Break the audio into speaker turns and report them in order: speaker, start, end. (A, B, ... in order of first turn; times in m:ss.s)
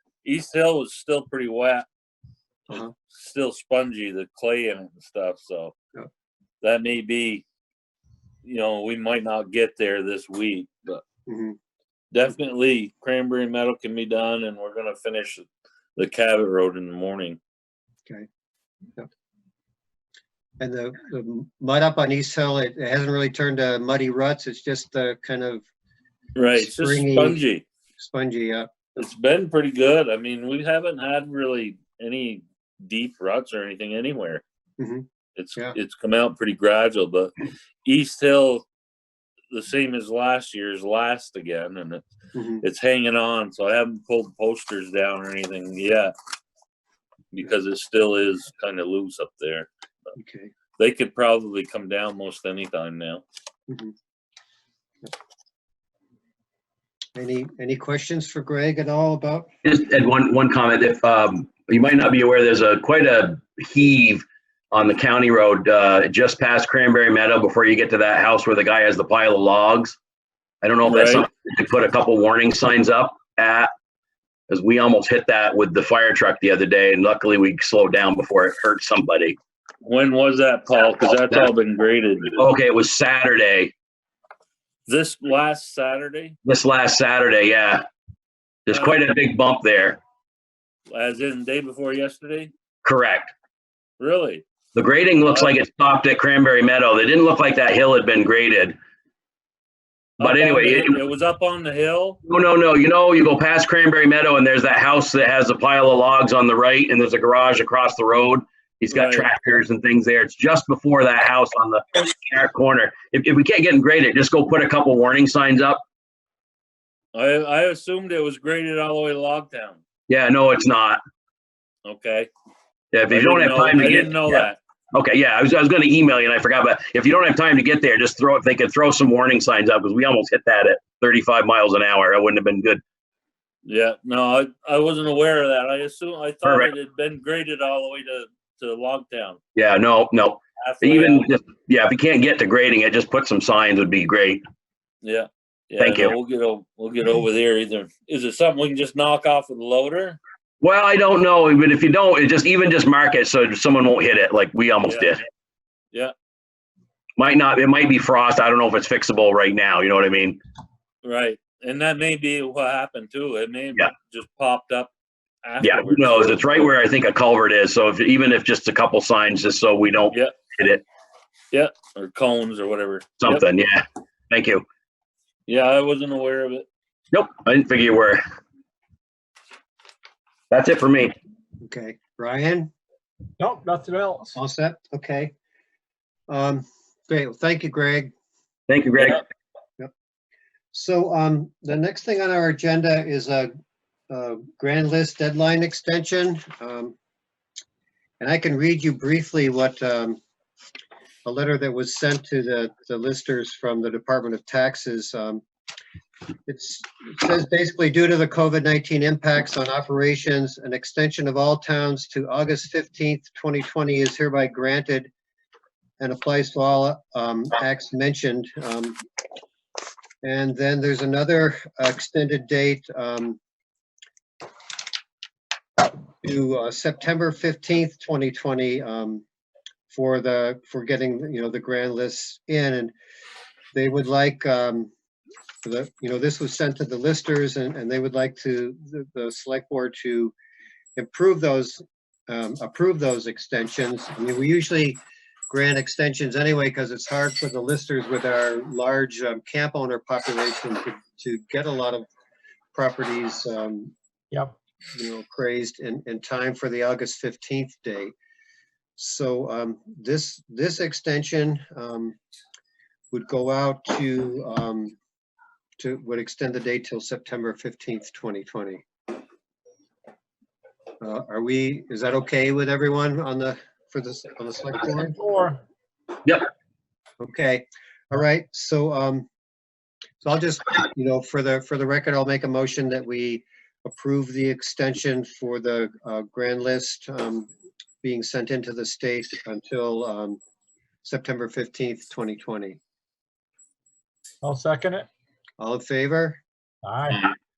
0:00.2-0:01.8 A
0:03.1-0:05.7 A
0:06.6-0:07.4 A
0:08.4-0:11.0 A
0:11.3-0:11.6 B
0:12.1-0:17.4 A
0:20.6-0:25.6 B
0:26.4-0:27.6 A
0:26.5-0:27.4 B
0:28.0-0:28.7 B
0:29.0-0:34.4 A
0:34.8-0:35.0 B
0:35.4-0:37.3 A
0:37.8-0:38.7 A
0:39.5-0:42.1 A
0:42.3-0:42.6 B
0:42.6-0:46.1 A
0:47.3-0:50.1 A
0:50.2-0:50.5 B
0:50.8-0:53.2 A
0:57.2-0:59.5 B
0:59.6-1:10.0 C
1:10.6-1:13.7 C
1:10.8-1:11.3 A
1:14.5-1:19.4 C
1:19.8-1:22.4 A
1:22.4-1:23.7 C
1:24.9-1:26.4 A
1:26.5-1:27.8 C
1:28.7-1:30.0 C
1:28.7-1:29.0 A
1:30.9-1:32.5 A
1:32.8-1:33.3 C
1:34.0-1:34.4 A
1:34.8-1:38.8 C
1:35.2-1:35.6 A
1:40.2-1:42.2 A
1:40.2-1:41.0 C
1:42.3-1:55.8 C
1:48.9-1:49.3 A
1:57.1-1:59.8 A
2:00.1-2:01.0 C
2:01.8-2:02.3 A
2:02.9-2:12.8 C
2:03.1-2:04.6 A
2:13.6-2:19.4 A
2:16.4-2:16.7 C
2:19.6-2:24.4 C
2:20.6-2:21.3 A
2:25.0-2:30.2 A
2:25.8-2:26.2 C
2:30.6-2:35.2 C
2:34.8-2:35.2 A
2:37.2-2:40.4 C
2:41.0-2:44.9 A
2:45.4-2:46.7 A
2:45.6-2:50.8 C
2:51.5-2:53.4 A
2:53.2-2:54.6 C
2:55.5-2:56.7 A
2:57.1-2:58.2 C
3:00.5-3:01.2 C
3:01.6-3:02.7 B
3:03.4-3:04.4 D
3:04.4-3:05.3 B
3:06.3-3:08.1 B
3:08.7-3:09.2 C
3:10.7-3:13.5 B
3:14.1-3:17.0 B
3:18.2-3:20.2 B
3:21.2-3:25.4 B
3:26.5-3:35.1 B
3:36.0-3:39.0 B
3:40.2-3:43.4 B
3:46.2-3:49.2 B
3:49.9-3:52.9 B
3:53.7-3:54.9 B
3:55.6-4:00.3 B
4:01.0-4:12.1 B
4:12.7-4:13.9 B
4:15.0-4:18.2 B
4:19.0-4:22.2 B
4:23.1-4:25.0 B
4:25.8-4:28.8 B
4:31.0-4:35.2 B
4:34.9-4:35.6 D
4:37.2-4:39.3 B
4:40.2-4:47.5 B
4:48.0-4:50.4 B
4:51.0-4:52.8 B
4:54.4-4:55.1 D
4:55.6-4:56.4 B
4:56.8-4:57.2 D